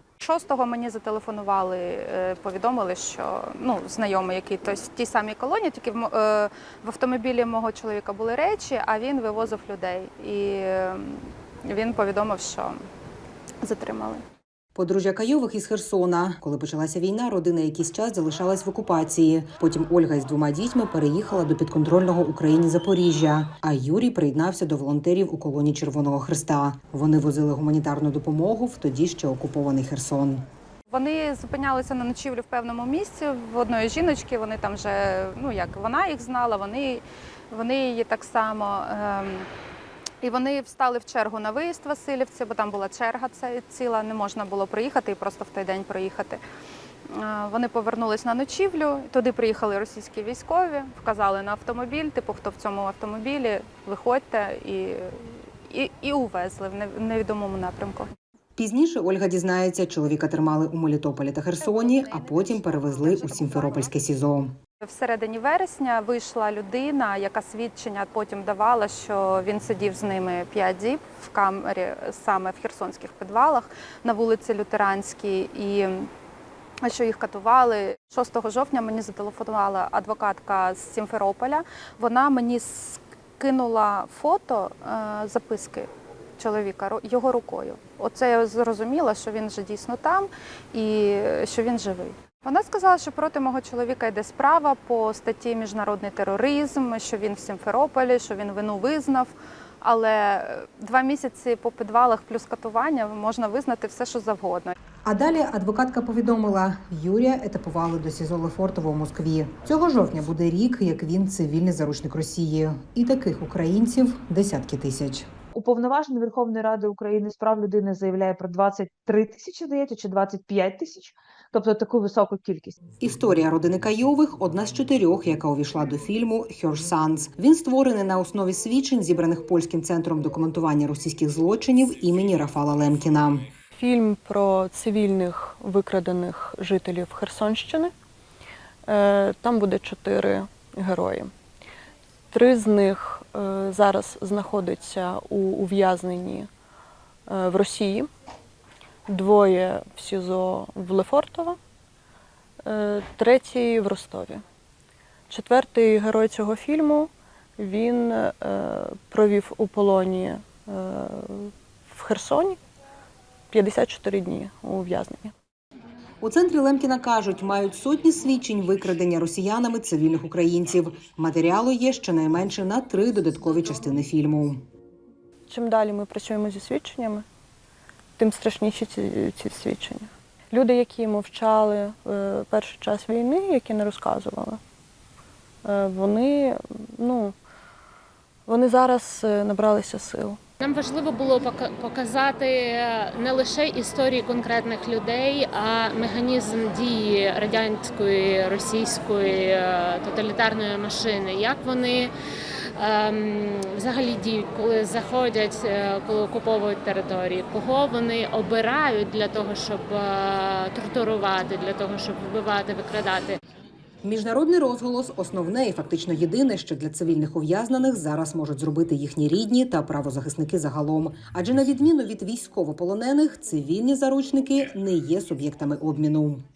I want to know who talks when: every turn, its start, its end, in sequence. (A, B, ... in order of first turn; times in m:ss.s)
0:00.2-0:12.8 A
0:13.6-0:14.2 A
0:14.8-0:30.4 B
0:30.9-0:39.5 A
0:40.2-0:46.4 A
0:47.1-0:58.1 A
0:58.6-1:04.6 B
1:01.6-1:04.0 A
1:04.8-1:16.1 A
1:16.8-1:44.7 A
1:45.0-1:55.3 B
1:55.5-2:02.8 C
2:03.0-2:13.5 B
2:13.8-2:17.9 D
2:18.9-2:21.3 D
2:22.3-2:26.5 D
2:27.3-2:28.1 D
2:29.1-2:31.6 D
2:32.7-2:34.4 D
2:35.3-2:42.6 D
2:43.5-2:45.3 D
2:46.2-2:54.6 B
2:55.5-2:57.2 D
2:58.2-3:04.6 D
3:05.6-3:07.3 D
3:08.5-3:10.4 D
3:10.6-3:22.1 E
3:22.8-3:33.4 E
3:34.0-3:46.5 B